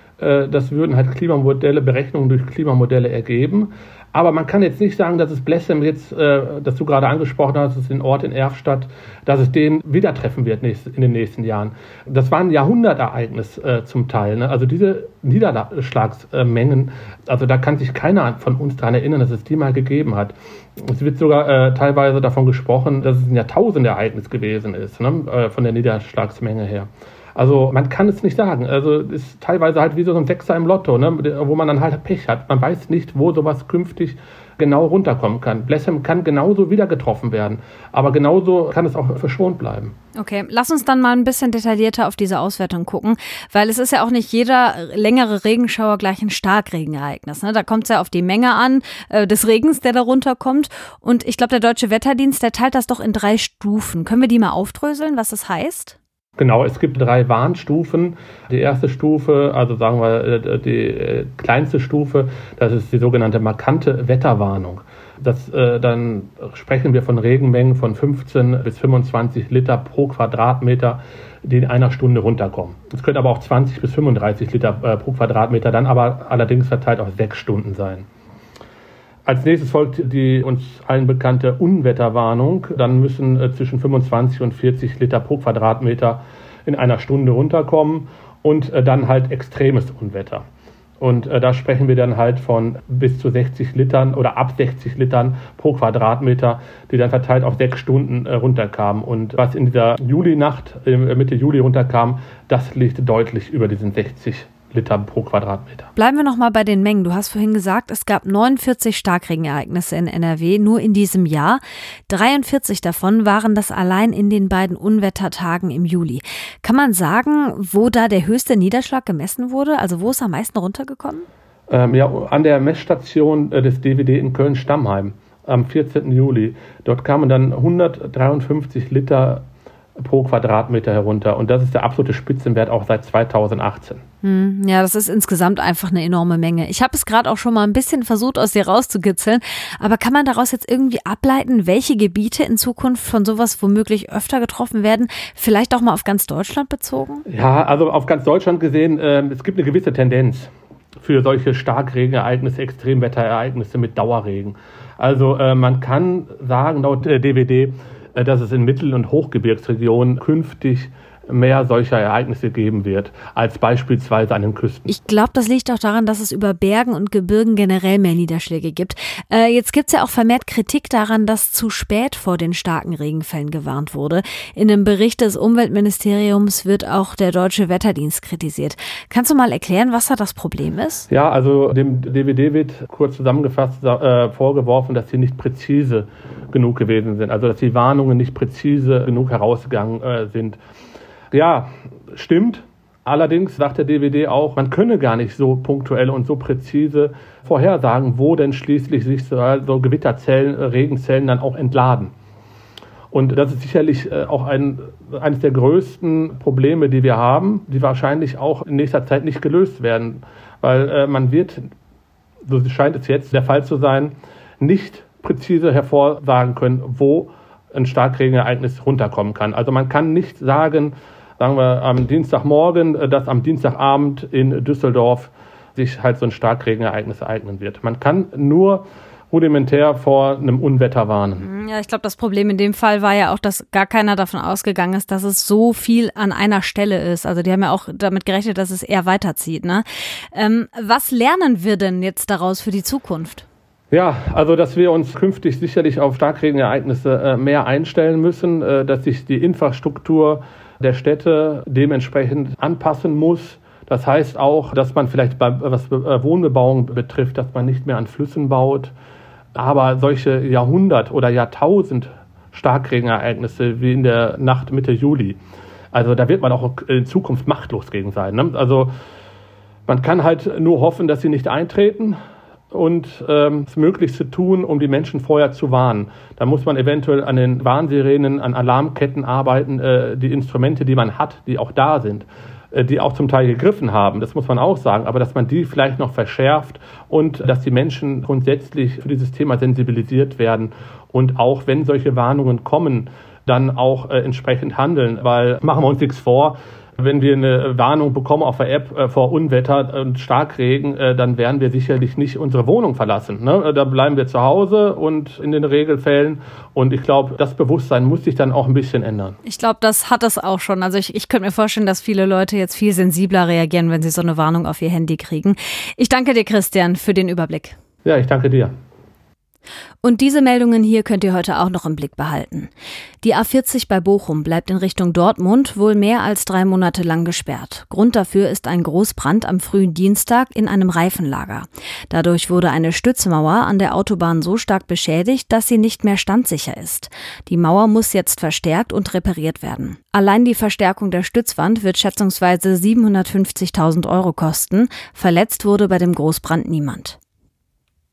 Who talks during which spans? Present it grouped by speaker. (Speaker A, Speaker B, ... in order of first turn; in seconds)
Speaker A: 0.2-39.9, 56.4-78.0, 79.2-90.4, 91.0-105.9, 121.7-129.4, 130.0-134.0, 147.3-164.9, 181.1-190.6, 191.3-202.1, 203.1-211.7, 212.4-231.4, 243.9-258.9, 259.5-265.4, 265.9-268.9, 269.9-272.2, 272.7-309.4, 318.0-318.7
Speaker B: 40.1-56.0, 106.0-121.3, 134.2-147.2, 164.8-181.1, 231.4-243.4, 309.4-317.8, 320.0-322.7, 323.2-347.2